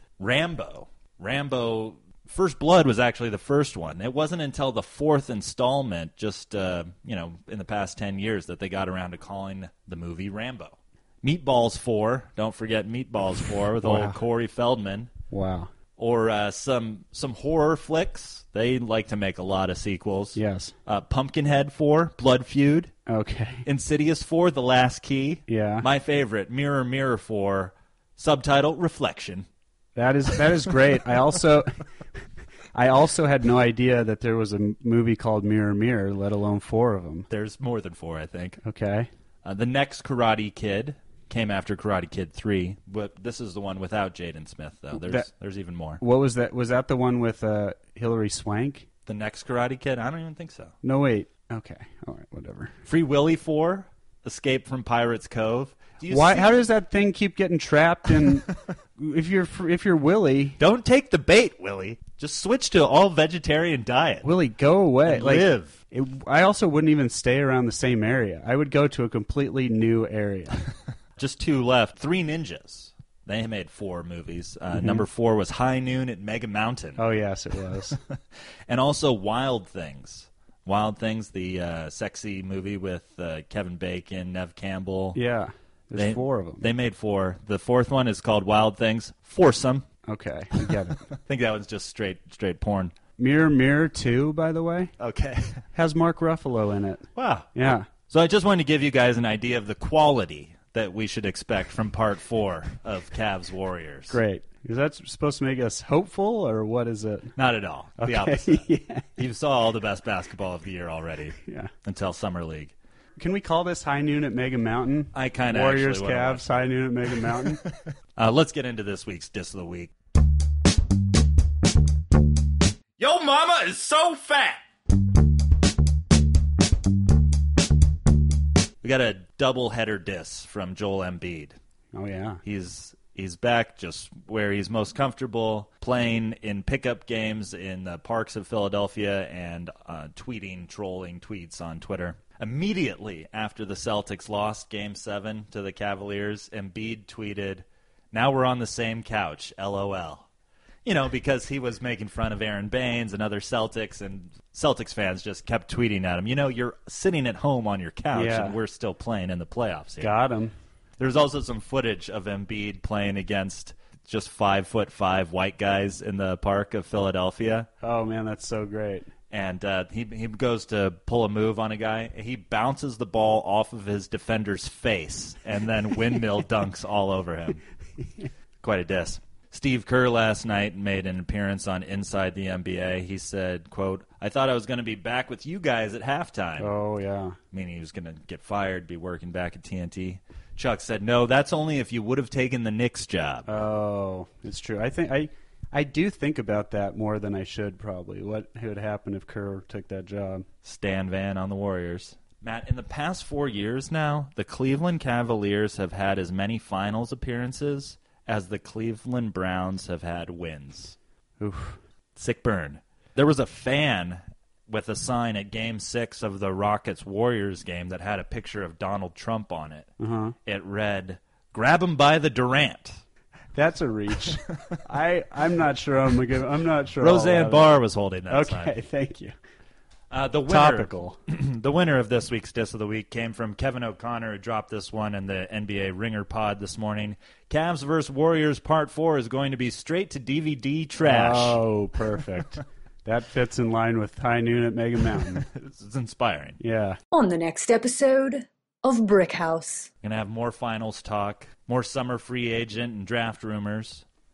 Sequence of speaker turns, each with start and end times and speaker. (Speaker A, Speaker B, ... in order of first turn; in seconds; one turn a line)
Speaker A: 0.2-15.1
Speaker B: 13.8-14.2
Speaker B: 15.3-15.7
Speaker A: 16.0-22.9
Speaker B: 20.4-20.7
Speaker B: 23.1-23.6
Speaker A: 23.6-29.5
Speaker B: 25.5-25.9
Speaker B: 30.0-31.8
Speaker B: 32.8-37.3
Speaker A: 37.3-38.6
Speaker B: 38.6-39.1
Speaker A: 39.4-46.0
Speaker B: 45.0-45.3
Speaker B: 46.0-48.9
Speaker A: 49.1-50.8
Speaker B: 50.8-52.8
Speaker A: 52.9-56.6
Speaker B: 56.1-60.6
Speaker A: 60.6-64.3
Speaker B: 64.2-70.7
Speaker A: 65.0-65.8
Speaker A: 71.2-77.0
Speaker B: 74.7-75.0
Speaker B: 77.0-78.0
Speaker A: 77.7-85.2
Speaker B: 85.2-86.7
Speaker A: 86.0-89.9
Speaker B: 90.1-91.1
Speaker A: 90.6-92.9
Speaker B: 93.2-94.9
Speaker A: 95.0-95.6
Speaker B: 95.7-97.9
Speaker A: 97.2-97.5
Speaker A: 98.0-104.2
Speaker B: 104.1-107.3
Speaker A: 107.4-112.7
Speaker B: 108.0-109.1
Speaker B: 111.4-111.7
Speaker B: 113.2-117.6
Speaker A: 115.1-116.6
Speaker A: 117.2-119.9
Speaker A: 123.0-124.6
Speaker A: 128.8-131.6
Speaker B: 131.9-132.4
Speaker A: 132.4-150.3
Speaker A: 150.8-160.1
Speaker B: 158.1-158.6
Speaker B: 160.0-160.5
Speaker A: 161.0-167.7
Speaker B: 167.8-169.1
Speaker A: 169.3-177.6
Speaker A: 178.6-186.7
Speaker B: 186.6-187.4
Speaker A: 187.5-193.5
Speaker B: 193.5-200.5
Speaker A: 200.6-211.0
Speaker B: 211.4-211.8
Speaker A: 212.2-219.9
Speaker B: 220.0-220.4
Speaker A: 220.5-223.0
Speaker B: 223.6-227.8
Speaker A: 227.0-228.7
Speaker B: 228.3-229.3
Speaker A: 230.1-241.6
Speaker B: 230.5-231.2
Speaker B: 241.0-245.5
Speaker A: 245.2-246.6
Speaker B: 246.6-247.0
Speaker C: 247.1-249.9
Speaker A: 250.0-254.1